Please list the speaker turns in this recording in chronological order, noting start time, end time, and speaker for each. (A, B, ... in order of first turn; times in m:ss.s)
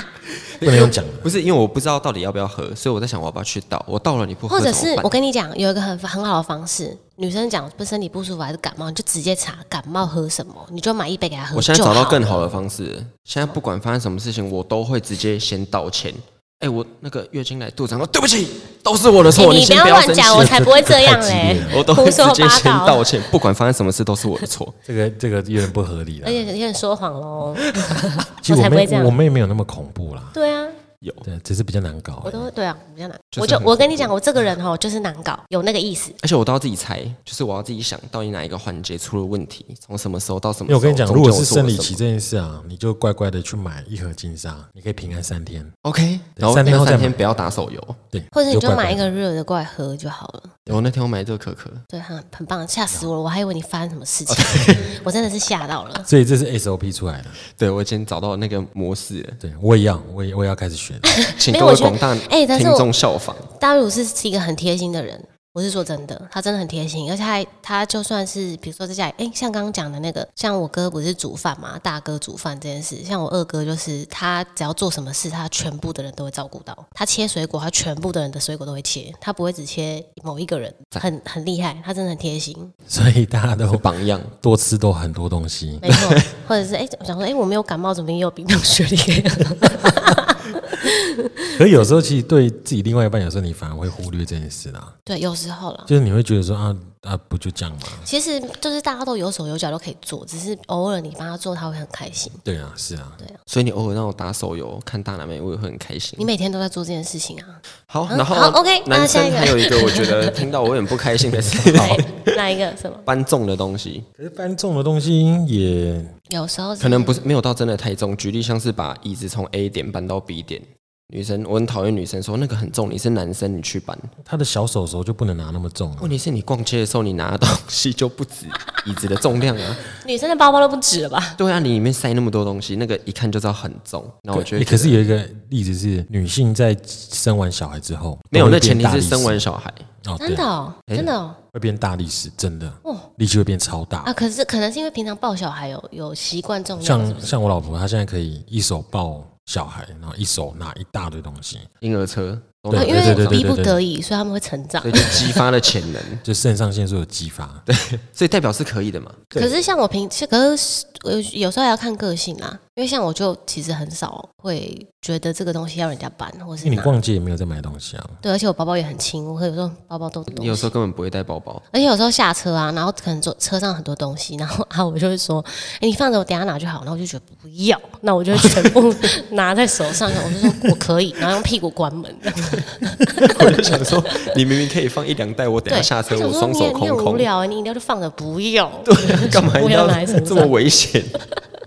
0:00.6-0:05.1 A
0:00.6-0:01.3 B
0:04.5-0:12.4 C
0:11.5-0:20.8 A
0:19.3-0:23.1 C
0:20.3-0:21.9 B
0:21.6-0:24.8 A
0:24.9-0:26.5 B
0:26.2-0:29.2 C
0:28.4-0:30.4 B
0:30.3-0:30.8 C
0:31.0-0:31.3 A
0:31.2-0:32.5 B
0:32.2-0:36.2 C
0:33.3-0:34.1 A
0:36.2-0:42.0 A
0:40.7-0:45.7 B
0:45.8-0:48.0 A
0:46.4-0:47.2 B
0:48.1-0:49.0 B
0:48.3-0:50.6 C
0:50.7-0:51.8 A
0:51.9-0:56.1 C
0:54.3-0:55.0 A
0:56.1-0:57.4 B
0:57.6-0:59.4 A
0:59.4-1:01.2 B
1:01.1-1:02.9 C
1:01.4-1:03.5 A
1:03.5-1:22.7 C
1:22.9-1:26.0 B
1:23.7-1:24.3 A
1:25.8-1:31.1 C
1:25.9-1:26.2 A
1:31.6-1:35.0 B
1:35.1-1:35.9 C
1:35.9-1:38.1 B
1:38.0-1:42.4 C
1:42.4-1:43.2 B
1:43.5-1:46.3 A
1:46.2-1:50.4 C
1:47.9-1:52.3 A
1:51.7-1:52.0 B
1:51.7-1:53.0 C
1:53.1-1:54.1 A
1:54.2-1:56.1 B
1:56.3-1:57.2 C
1:56.8-2:04.1 A
2:04.2-2:06.2 B
2:06.0-2:09.8 A
2:09.9-2:11.4 C
2:11.4-2:15.0 A
2:14.3-2:19.5 B
2:18.3-2:19.9 A
2:20.0-2:20.5 B
2:20.2-2:21.4 C
2:21.5-2:24.1 B
2:24.0-2:27.4 C
2:26.8-2:31.7 B
2:31.8-2:33.4 A
2:32.7-2:33.8 B
2:32.7-2:35.4 C
2:34.8-2:36.2 A
2:36.2-2:37.7 B
2:37.7-2:39.4 A
2:39.4-2:47.0 C
2:46.6-2:48.2 B
2:48.2-2:50.7 C
2:50.3-2:51.7 A
2:51.7-3:03.4 C
3:03.2-3:07.3 A
3:05.7-3:10.5 C
3:08.9-3:11.2 A